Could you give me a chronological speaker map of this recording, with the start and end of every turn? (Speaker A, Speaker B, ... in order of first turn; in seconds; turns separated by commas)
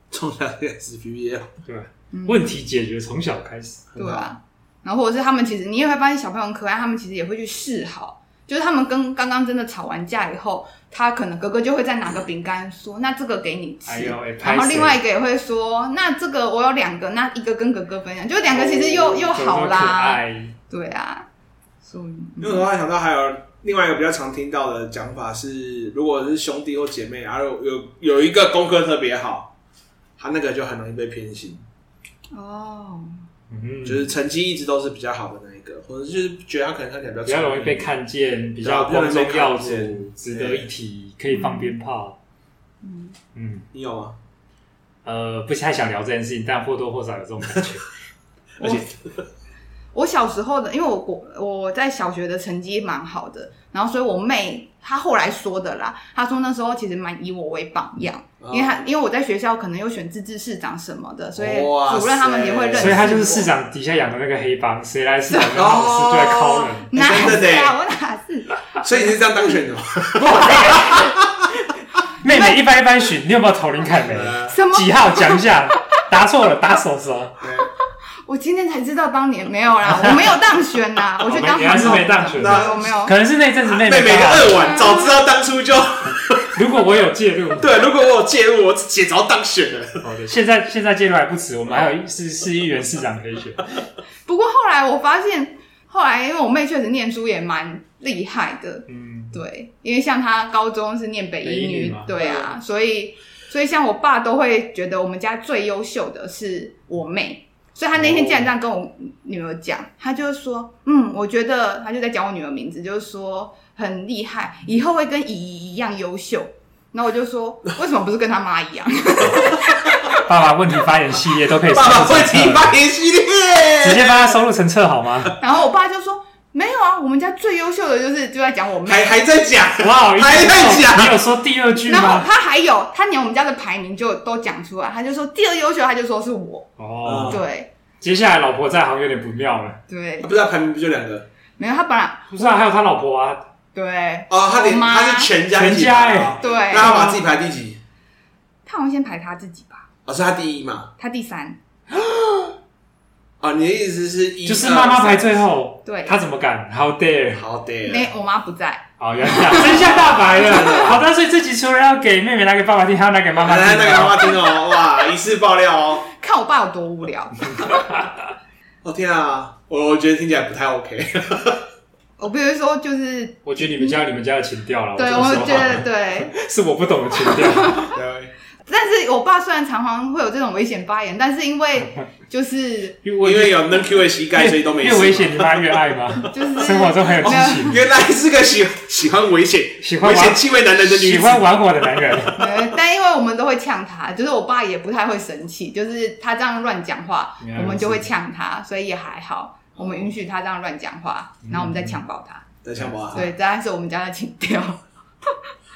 Speaker A: 0.1-1.5, Speaker B: 1.7-3.9, Speaker C: 2.1-2.6, Speaker A: 4.0-4.3, Speaker C: 4.0-21.3, Speaker B: 13.8-15.0, Speaker A: 18.5-19.3, Speaker B: 19.3-20.6, Speaker C: 21.8-22.7, Speaker A: 22.4-29.5, Speaker A: 30.2-31.6, Speaker C: 32.3-33.2, Speaker B: 33.5-34.1, Speaker A: 33.8-37.9, Speaker B: 37.2-42.2, Speaker A: 38.6-40.7, Speaker C: 41.3-41.7, Speaker C: 42.8-43.2, Speaker B: 43.3-43.7, Speaker A: 43.7-44.2, Speaker B: 45.0-47.9, Speaker C: 48.6-48.9, Speaker A: 48.6-48.9, Speaker C: 49.9-63.5, Speaker A: 58.4-58.8, Speaker A: 61.4-63.1, Speaker B: 62.8-66.9, Speaker A: 65.4-67.7, Speaker C: 66.8-69.2, Speaker A: 68.8-71.5, Speaker B: 70.2-71.1, Speaker B: 72.2-77.4, Speaker A: 74.1-74.5, Speaker C: 74.5-75.5, Speaker A: 77.4-77.7, Speaker C: 78.3-83.1, Speaker B: 79.8-80.4, Speaker B: 81.2-84.7, Speaker A: 81.3-82.9, Speaker A: 83.7-86.5, Speaker C: 84.6-85.1, Speaker B: 86.5-87.7, Speaker A: 87.5-90.0, Speaker B: 90.0-93.7, Speaker C: 94.3-119.9, Speaker B: 98.9-99.4, Speaker B: 101.4-102.2, Speaker A: 102.2-102.5, Speaker A: 108.0-108.5, Speaker B: 120.1-122.8, Speaker A: 121.7-124.4, Speaker B: 123.8-125.4, Speaker C: 125.4-129.2, Speaker A: 128.8-131.2, Speaker B: 129.8-132.3, Speaker C: 131.9-137.7, Speaker B: 136.8-137.4, Speaker A: 137.0-137.4, Speaker B: 138.0-139.8, Speaker C: 139.9-140.3, Speaker A: 140.2-141.3, Speaker C: 141.6-142.5, Speaker B: 142.3-143.5, Speaker C: 143.7-145.3, Speaker A: 144.3-147.8, Speaker B: 145.5-147.2, Speaker C: 146.4-147.2, Speaker C: 148.7-149.9, Speaker A: 150.1-150.9, Speaker C: 151.0-151.6, Speaker A: 153.4-155.5, Speaker B: 154.4-157.4, Speaker C: 155.8-156.2, Speaker A: 157.3-158.1, Speaker C: 157.9-158.8, Speaker B: 159.0-164.3, Speaker A: 159.3-161.1, Speaker A: 163.4-166.1, Speaker C: 166.1-167.7, Speaker A: 168.8-171.7, Speaker C: 172.2-174.0, Speaker B: 173.4-177.9, Speaker C: 174.9-176.3, Speaker C: 177.2-177.9, Speaker A: 177.9-178.3, Speaker C: 178.7-183.0, Speaker B: 183.0-187.8, Speaker A: 183.2-185.9, Speaker C: 186.2-187.8, Speaker A: 187.2-192.6, Speaker B: 189.8-192.4, Speaker C: 192.4-202.5, Speaker B: 197.4-198.1, Speaker A: 199.8-200.0, Speaker B: 201.4-202.0, Speaker A: 202.6-203.3, Speaker C: 203.1-204.8